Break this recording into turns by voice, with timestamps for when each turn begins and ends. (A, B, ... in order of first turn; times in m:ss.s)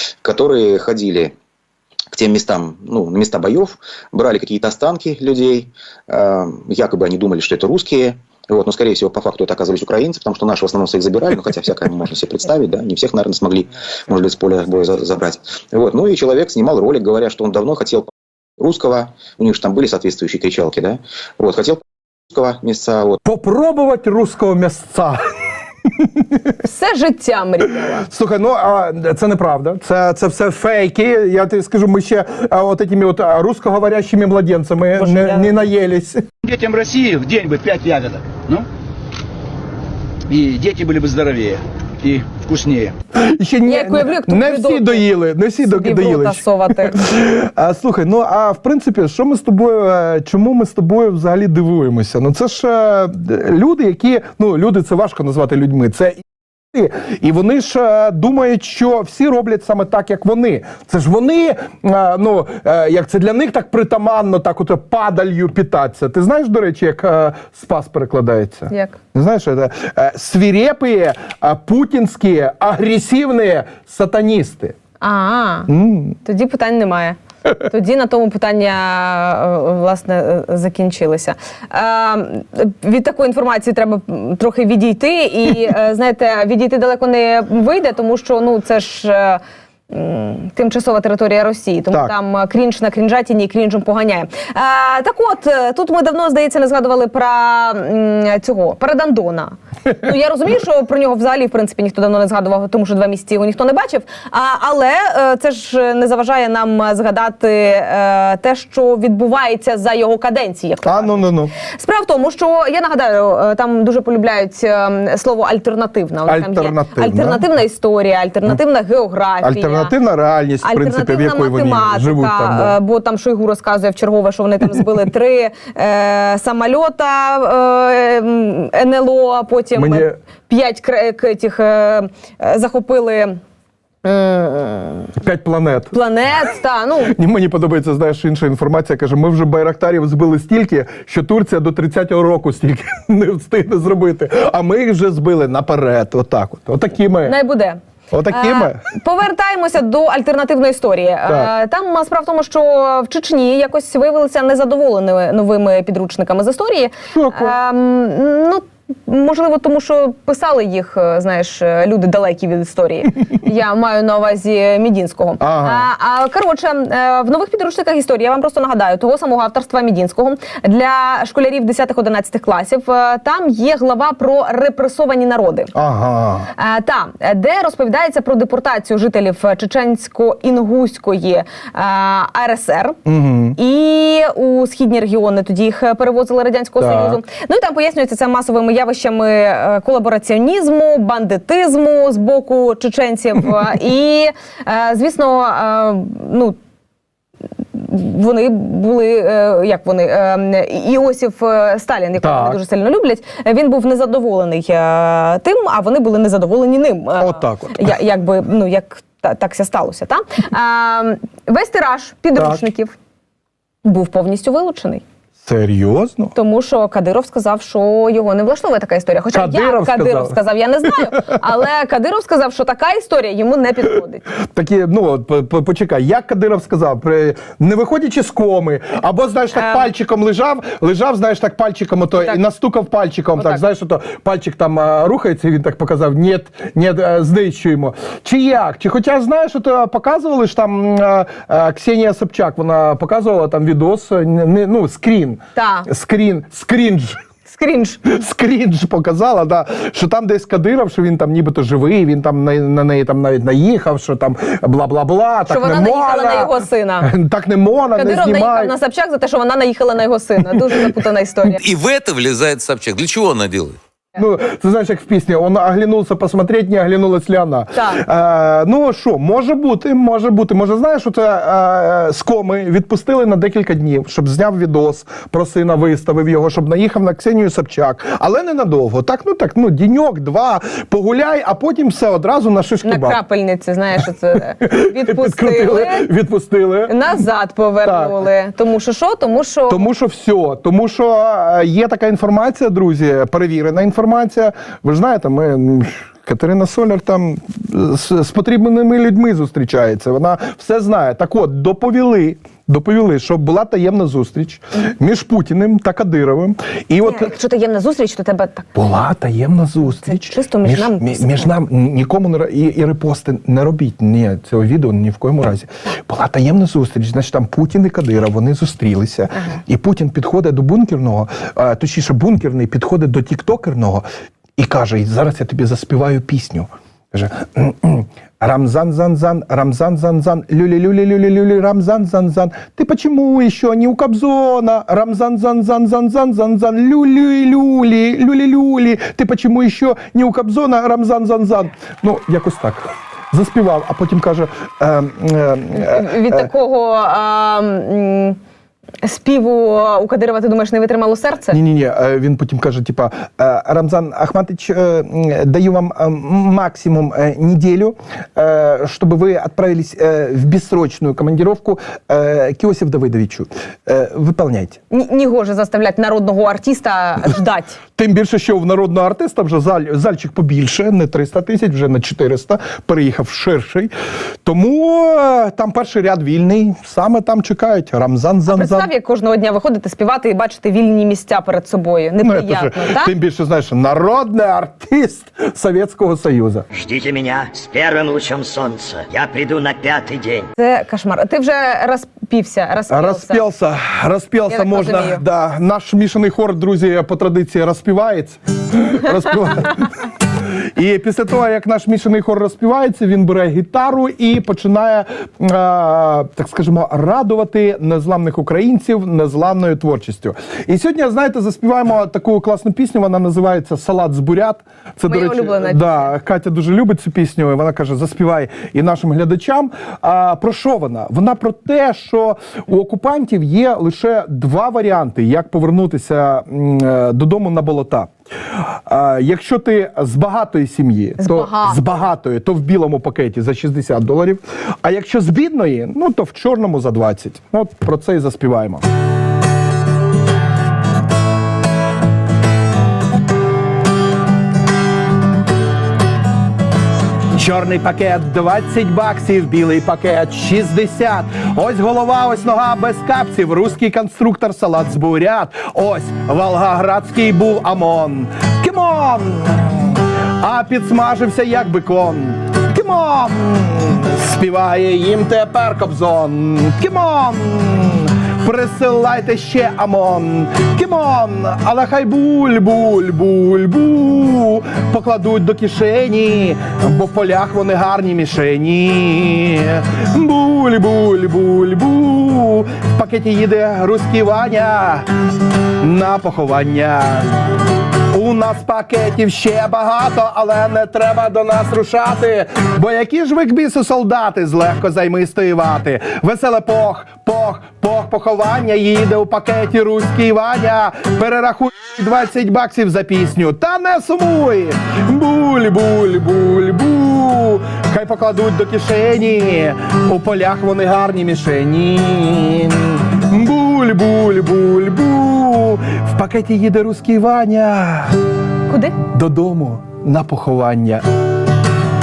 0:00.2-0:01.3 A
0:02.1-0:23.2 A
0:23.2-0:25.2 B
0:26.6-0:28.1 C
0:28.0-0:36.3 B
0:35.0-0:35.6 C
0:36.4-0:38.6 D
0:40.3-0:42.9 D
0:43.1-1:14.8 B
0:43.6-0:45.1 C
0:45.6-0:47.1 C
1:08.7-1:09.0 C
1:15.0-1:15.7 C
1:15.7-1:16.2 B
1:16.2-1:59.9 C
1:50.8-1:51.5 B
1:56.3-1:57.5 B
1:59.4-2:02.8 B
2:00.6-2:13.4 C
2:09.7-2:10.1 B
2:14.0-2:15.1 C
2:15.2-2:15.9 B
2:15.9-2:17.1 C
2:17.1-2:27.4 B
2:27.2-2:55.7 C
2:28.1-2:28.8 B
2:37.1-2:37.5 B
2:45.4-2:45.9 B
2:55.7-2:56.5 B
2:56.5-3:03.0 C
3:03.0-3:03.6 B
3:03.5-3:16.6 C
3:06.8-3:07.2 B
3:17.7-3:32.9 C
3:22.2-3:22.6 B
3:27.2-3:27.9 B
3:32.4-3:32.6 B
3:33.8-3:35.0 C
3:35.4-3:36.3 B
3:36.3-3:44.3 C
3:39.3-3:40.4 B
3:41.0-3:41.4 B
3:44.4-4:07.2 B
3:49.5-3:49.9 C
3:53.3-3:53.6 C
4:05.6-4:05.9 C
4:07.5-4:08.0 C
4:08.0-4:18.7 B
4:15.5-4:17.1 C
4:18.0-4:21.6 C
4:21.4-4:23.8 E
4:24.1-4:43.2 B
4:27.7-4:28.0 C
4:42.8-4:46.1 C
4:44.6-4:46.9 B
4:46.9-4:49.9 C
4:47.8-4:48.3 B
4:49.7-5:07.3 B
5:07.0-5:08.7 C
5:08.8-5:24.0 B
5:09.9-5:11.5 C
5:24.6-5:46.5 B
5:45.7-5:48.4 C
5:49.0-5:51.6 C
5:51.5-6:04.8 B
6:04.9-6:07.8 C
6:08.0-6:13.9 B
6:14.4-6:18.9 B
6:18.5-6:23.1 C
6:22.2-6:26.6 B
6:26.7-6:30.5 F
6:30.6-6:33.4 C
6:32.9-7:18.8 B
6:34.5-6:35.2 C
6:55.1-6:56.1 C
7:11.2-7:11.8 C
7:27.3-8:05.1 B
8:05.8-8:07.4 B
8:08.1-8:38.2 B
8:38.7-8:39.0 C
8:39.0-8:41.0 B